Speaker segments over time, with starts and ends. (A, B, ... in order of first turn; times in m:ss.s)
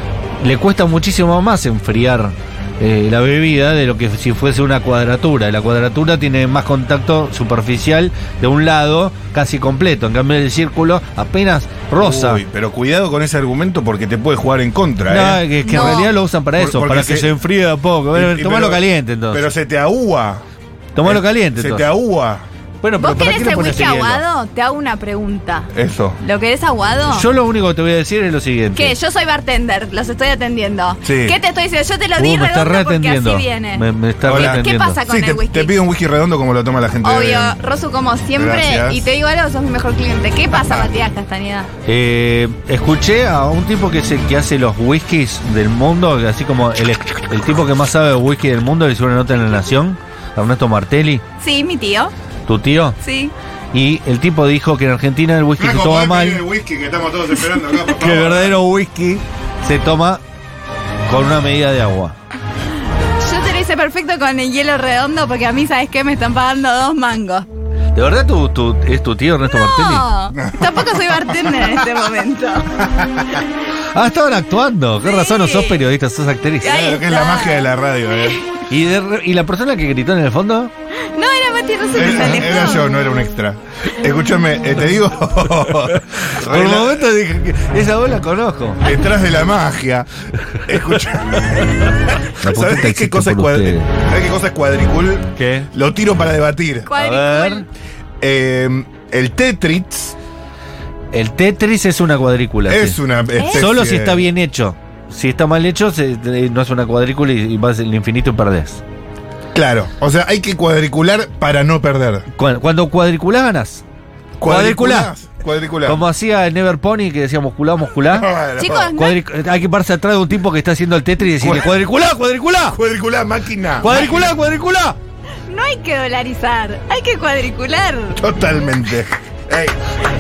0:00.4-0:12.4 A
0:12.0-0:15.8 B
0:15.1-0:19.5 A
0:15.6-0:16.1 C
0:16.6-0:17.4 B
0:18.1-0:20.4 B
0:21.0-0:21.9 A
0:21.0-0:22.5 B
0:22.8-0:24.2 A
0:23.0-0:27.3 C
0:25.7-0:26.2 B
0:27.1-0:28.9 A
0:28.8-0:35.8 C
0:31.0-0:31.4 B
0:32.2-0:35.0 A
0:34.2-0:37.6 B
0:37.0-0:41.7 C
0:38.4-0:39.0 B
0:40.5-0:40.9 B
0:41.9-0:51.2 A
0:51.4-0:52.1 C
0:52.5-0:53.0 A
0:53.0-0:53.3 C
0:53.7-0:56.4 A
0:55.6-0:58.6 B
0:57.9-1:00.2 A
1:01.1-1:02.2 A
1:03.2-1:07.5 C
1:08.0-1:10.1 A
1:09.5-1:12.8 C
1:10.4-1:11.0 B
1:12.8-1:13.4 B
1:13.9-1:16.7 A
1:15.0-1:15.8 C
1:16.6-1:17.7 C
1:16.6-1:18.4 B
1:18.7-1:20.7 A
1:21.1-1:22.9 C
1:21.9-1:27.1 B
1:26.2-1:28.8 A
1:28.8-1:36.9 B
1:32.4-1:33.9 A
1:35.4-1:35.7 A
1:36.9-1:37.7 C
1:36.9-1:37.7 A
1:38.2-1:40.2 B
1:41.1-1:48.8 A
1:42.7-1:44.3 B
1:43.4-1:43.7 C
1:49.5-1:52.3 B
1:52.3-1:53.8 A
1:54.4-1:56.0 B
1:54.4-1:55.1 A
1:55.8-1:58.3 A
1:58.0-1:58.9 B
1:58.6-1:59.2 C
1:59.0-2:02.8 A
2:01.4-2:01.8 B
2:02.7-2:04.3 B
2:03.8-2:05.0 A
2:05.5-2:08.2 C
2:08.2-2:09.8 B